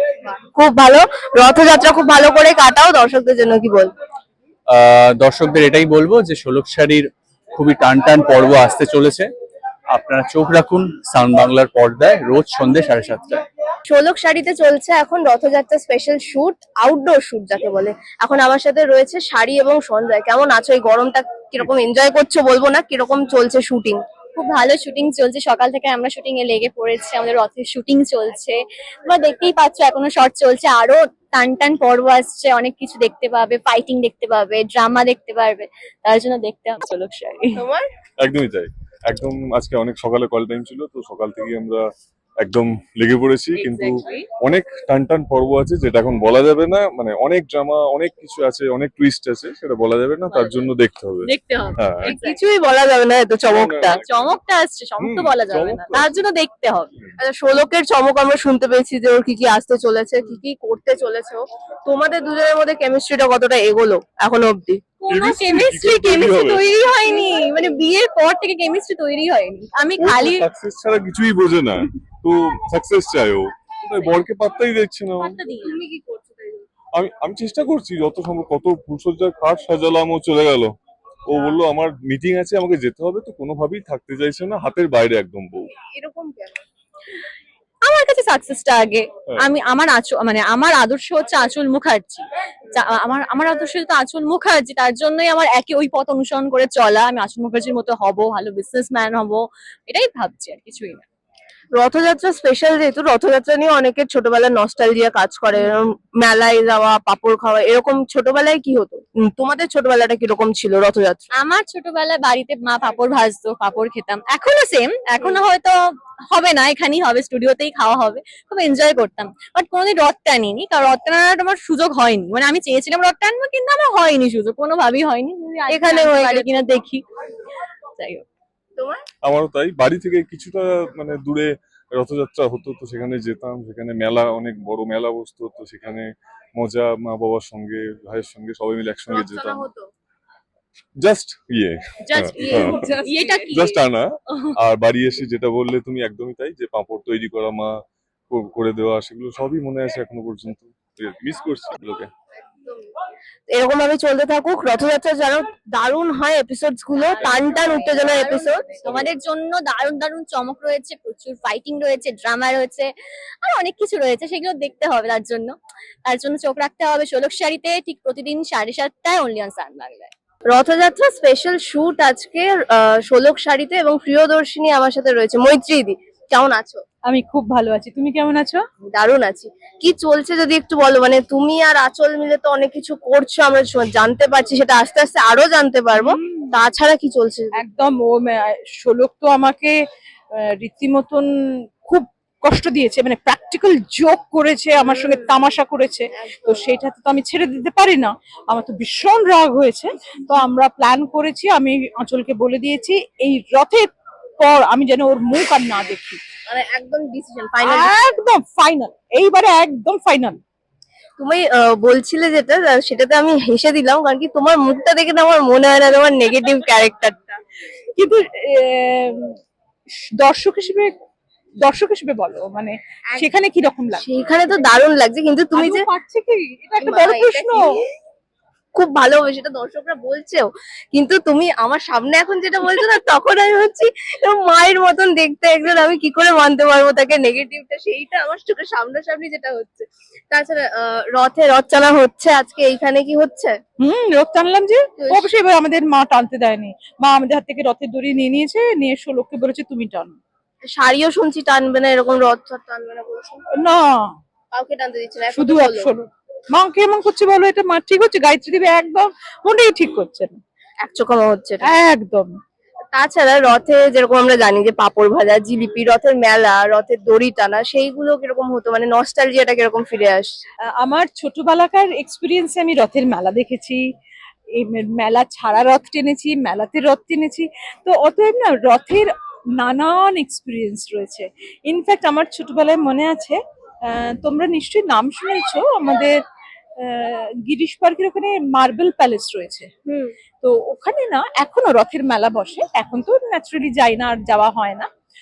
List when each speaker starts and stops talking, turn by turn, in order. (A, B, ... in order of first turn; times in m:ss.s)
0:00.2-0:03.9 A
0:04.7-0:09.3 B
0:09.9-0:13.4 B
0:13.9-0:24.0 A
0:24.4-0:37.6 C
0:37.6-0:37.9 A
0:38.2-0:41.8 D
0:42.4-0:52.2 D
0:43.6-0:44.3 C
0:50.3-0:50.7 C
0:51.2-0:52.4 C
0:52.0-0:54.0 A
0:53.5-0:54.4 D
0:54.0-0:56.9 C
0:55.0-0:56.2 D
0:57.2-1:05.0 A
1:05.0-1:10.5 C
1:05.1-1:06.7 D
1:10.0-1:15.4 D
1:15.2-1:15.8 C
1:15.6-1:16.6 A
1:17.0-1:20.7 D
1:21.3-1:25.7 D
1:25.9-1:26.6 A
1:27.8-1:41.0 C
1:41.7-1:51.3 A
1:51.4-1:55.8 C
1:56.3-2:07.0 C
2:05.7-2:06.6 A
2:08.0-2:08.2 C
2:08.8-2:09.0 A
2:09.2-2:19.7 D
2:19.1-2:19.8 A
2:21.0-2:27.8 D
2:22.1-2:23.7 C
2:22.3-2:23.6 E
2:28.3-2:32.1 D
2:32.5-2:32.9 A
2:33.5-2:38.8 A
2:36.9-2:42.9 C
2:43.4-2:45.6 C
2:46.1-2:50.1 C
2:50.5-2:56.8 A
2:57.1-2:58.6 E
2:58.9-3:07.6 A
3:06.0-3:06.5 E
3:07.6-3:09.8 E
3:10.4-3:11.3 E
3:11.8-3:26.2 E
3:14.8-3:15.3 A
3:16.2-3:16.7 A
3:26.5-3:28.0 A
3:27.7-3:30.4 E
3:31.2-3:37.4 A
3:38.0-3:39.4 E
3:40.2-3:40.9 E
3:41.6-3:44.6 E
3:44.0-3:45.8 A
3:45.5-3:47.7 E
3:46.8-3:47.8 A
3:48.8-4:03.6 A
4:03.8-4:10.2 E
4:05.0-4:05.3 A
4:10.8-4:13.4 A
4:13.6-4:14.1 E
4:14.5-4:15.9 A
4:15.3-4:20.4 E
4:20.8-4:21.7 A
4:21.6-4:22.3 E
4:22.9-4:30.4 A
4:30.8-4:33.8 E
4:34.6-4:46.2 E
4:46.8-4:49.7 E
4:49.9-4:50.1 A
4:50.4-4:54.9 E